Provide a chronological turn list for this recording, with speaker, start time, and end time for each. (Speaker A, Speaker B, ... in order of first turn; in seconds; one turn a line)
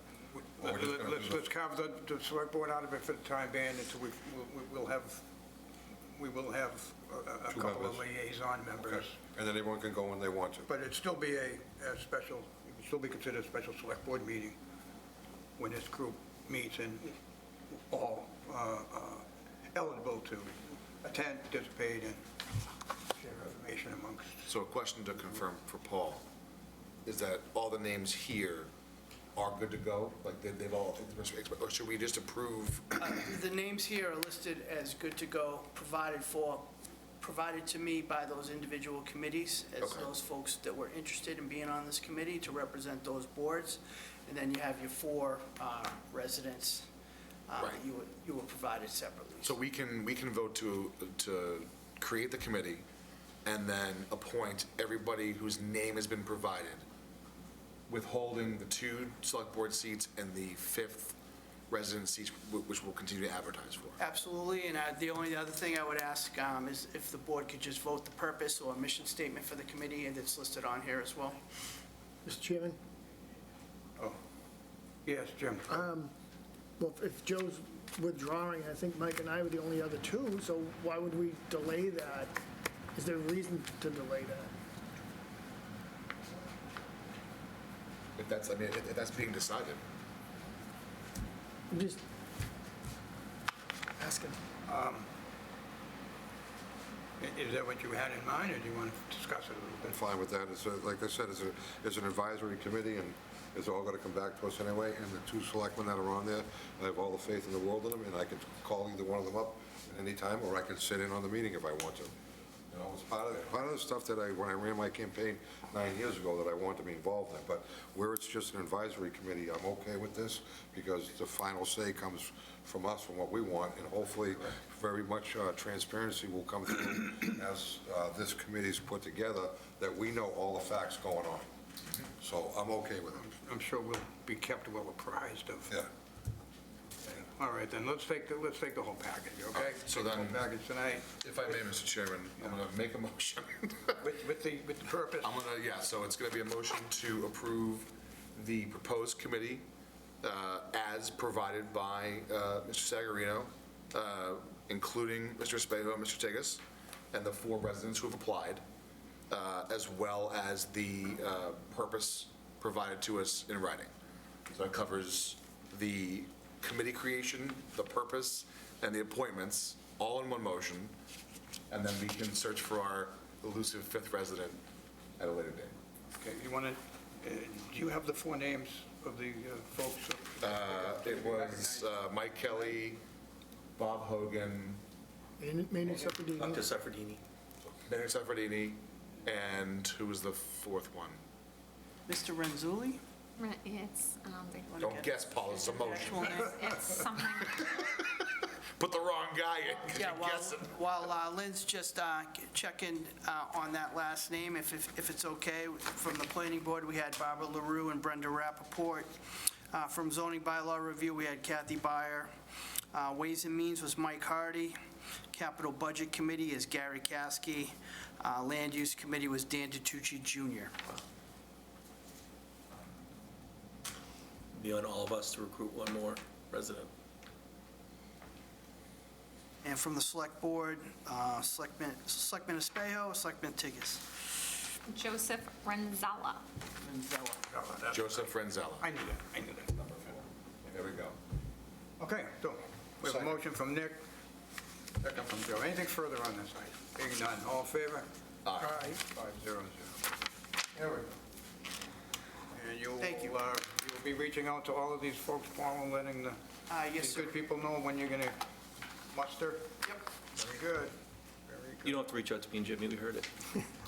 Speaker A: 0.3-5.2
Speaker B: 0.6-1.4
Speaker A: 6.1-9.2
Speaker B: 7.5-8.1
Speaker B: 8.8-10.7
Speaker A: 10.7-14.6
Speaker A: 15.6-17.1
Speaker A: 17.8-22.2
Speaker A: 23.1-24.5
Speaker C: 24.5-26.2
Speaker C: 27.0-28.7
Speaker C: 29.4-33.0
Speaker D: 33.0-46.9
Speaker C: 39.8-40.1
Speaker D: 47.5-49.5
Speaker C: 49.4-52.8
Speaker C: 53.5-56.8
Speaker C: 57.9-61.2
Speaker C: 61.7-64.0
Speaker D: 64.0-71.4
Speaker E: 72.2-72.8
Speaker A: 75.0-75.7
Speaker E: 75.7-76.1
Speaker E: 76.8-82.4
Speaker E: 83.0-84.5
Speaker C: 88.2-89.8
Speaker E: 91.7-92.0
Speaker E: 94.0-94.4
Speaker A: 94.7-95.1
Speaker A: 97.2-100.0
Speaker B: 99.8-112.1
Speaker B: 112.7-131.5
Speaker B: 132.2-133.2
Speaker A: 133.1-135.7
Speaker A: 137.1-141.6
Speaker C: 139.5-140.4
Speaker C: 141.2-144.0
Speaker A: 144.0-145.4
Speaker C: 145.2-149.7
Speaker C: 150.2-158.6
Speaker C: 159.3-163.9
Speaker C: 164.5-170.9
Speaker C: 171.7-174.6
Speaker C: 175.2-175.7
Speaker A: 176.2-182.7
Speaker C: 180.4-183.0
Speaker C: 183.8-184.8
Speaker E: 185.4-186.6
Speaker F: 186.4-187.2
Speaker C: 187.8-191.2
Speaker D: 192.1-193.0
Speaker G: 193.4-194.8
Speaker D: 194.7-196.6
Speaker C: 194.8-196.4
Speaker G: 196.5-197.7
Speaker C: 197.9-198.2
Speaker C: 198.8-200.7
Speaker D: 199.9-209.1
Speaker D: 209.7-212.3
Speaker D: 212.9-214.8
Speaker D: 215.3-220.7
Speaker F: 224.5-226.9
Speaker D: 229.6-234.0
Speaker G: 234.9-236.4
Speaker D: 236.8-237.4
Speaker A: 237.5-239.7
Speaker C: 237.9-238.9
Speaker C: 239.7-241.2
Speaker A: 242.0-244.0
Speaker C: 243.0-243.4
Speaker C: 245.0-245.3
Speaker A: 245.2-250.0
Speaker C: 248.4-248.8
Speaker A: 250.7-251.1
Speaker A: 252.5-256.4
Speaker D: 253.0-253.4
Speaker D: 256.7-257.4
Speaker A: 257.0-258.4
Speaker A: 259.1-259.7
Speaker A: 260.2-260.9
Speaker A: 261.5-262.0
Speaker F: 261.8-263.3